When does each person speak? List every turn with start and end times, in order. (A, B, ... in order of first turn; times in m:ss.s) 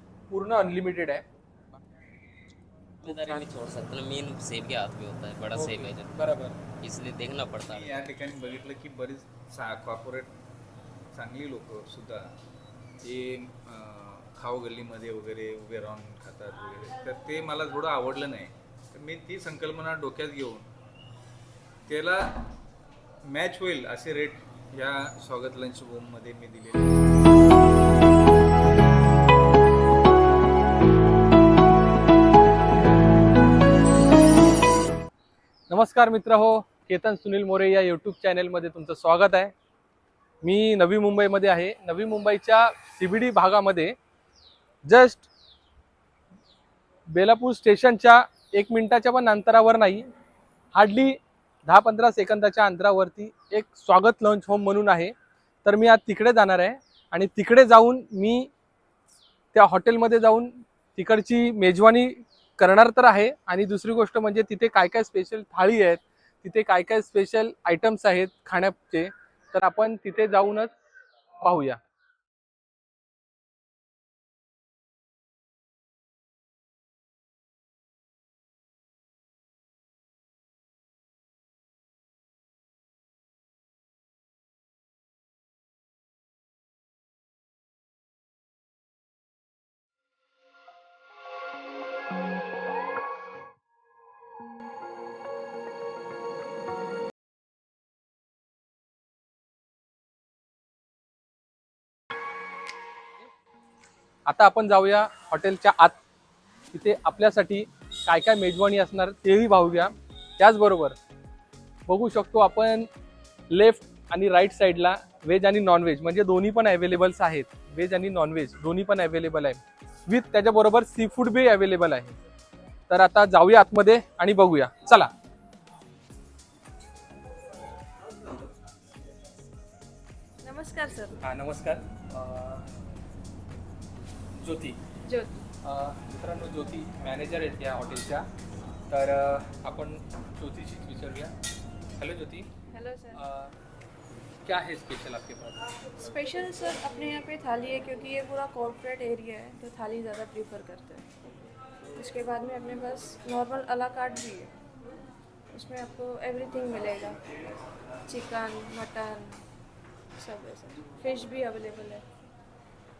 0:00.3-0:01.2 A
0:03.0-0:06.1 B
0:03.0-0:03.4 A
0:05.5-0:06.6 A
0:06.8-0:08.1 B
0:07.7-0:10.3 C
0:11.1-0:12.3 C
0:13.0-0:20.7 C
0:21.9-0:22.3 C
0:23.3-0:27.1 C
0:35.7-0:39.5 A
0:40.4-0:44.0 A
0:44.8-0:45.3 A
0:47.1-0:50.1 A
0:50.7-0:58.5 A
0:59.5-1:10.8 A
1:11.4-1:11.8 A
1:44.2-1:46.0 A
1:46.7-1:51.0 A
1:51.9-1:52.9 A
1:53.5-2:02.2 A
2:02.9-2:05.1 A
2:10.4-2:11.2 D
2:11.2-2:12.7 A
2:14.4-2:14.8 A
2:15.0-2:15.4 D
2:15.6-2:18.2 A
2:18.9-2:21.3 A
2:22.0-2:22.5 A
2:22.7-2:23.2 D
2:23.1-2:23.5 A
2:24.4-2:25.6 A
2:26.0-2:31.1 D
2:32.0-2:34.6 D
2:35.5-2:37.2 D
2:38.1-2:39.4 D
2:40.1-2:42.0 D